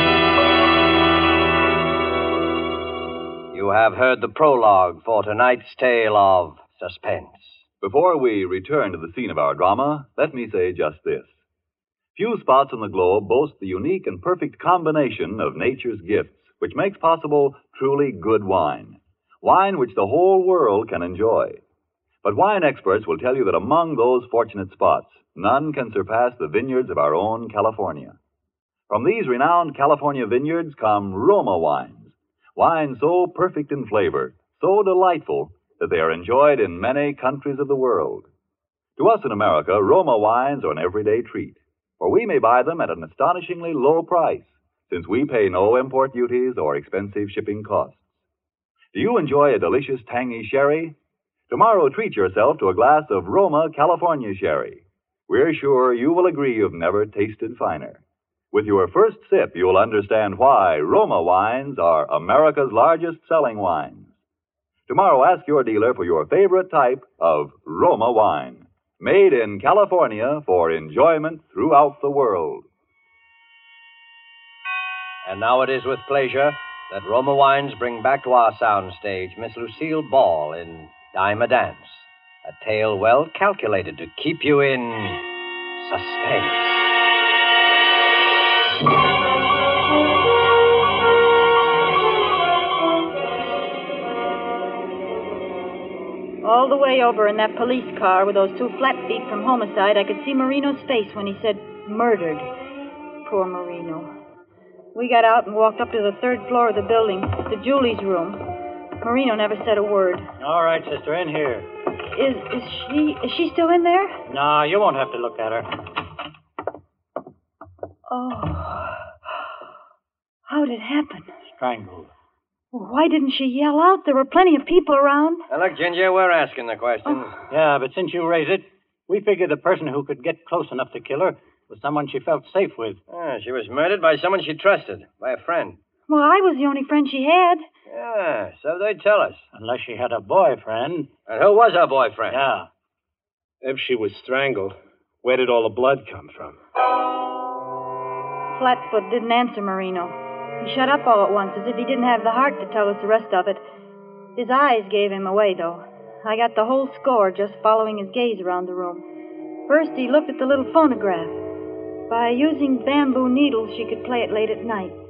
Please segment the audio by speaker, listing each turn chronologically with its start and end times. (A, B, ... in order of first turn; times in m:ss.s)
0:03.5-0:07.6 A
0:07.8-0:11.4 B
0:12.1-0:21.6 B
0:22.2-0:28.2 B
0:28.9-0:38.3 B
0:39.0-0:48.2 B
0:48.9-0:51.0 B
0:51.5-1:04.2 B
1:04.9-1:12.6 B
1:15.2-1:25.2 A
1:25.8-1:26.9 A
1:36.4-1:42.5 C
1:43.2-1:44.1 C
1:44.9-1:48.4 C
1:49.0-1:50.2 C
1:50.4-1:51.7 D
1:52.1-1:54.2 C
1:54.3-1:55.7 D
1:58.1-1:59.1 C
2:00.5-2:01.3 C
2:01.6-2:02.1 D
2:02.7-2:05.4 C
2:05.5-2:07.4 A
2:07.5-2:13.0 D
2:13.1-2:15.8 A
2:16.1-2:17.6 C
2:17.9-2:19.4 A
2:19.5-2:21.1 D
2:21.3-2:22.4 A
2:22.3-2:22.7 D
2:23.6-2:26.6 E
2:28.5-2:33.6 C
2:34.4-2:39.0 C
2:39.7-2:41.4 C
2:42.1-2:45.0 C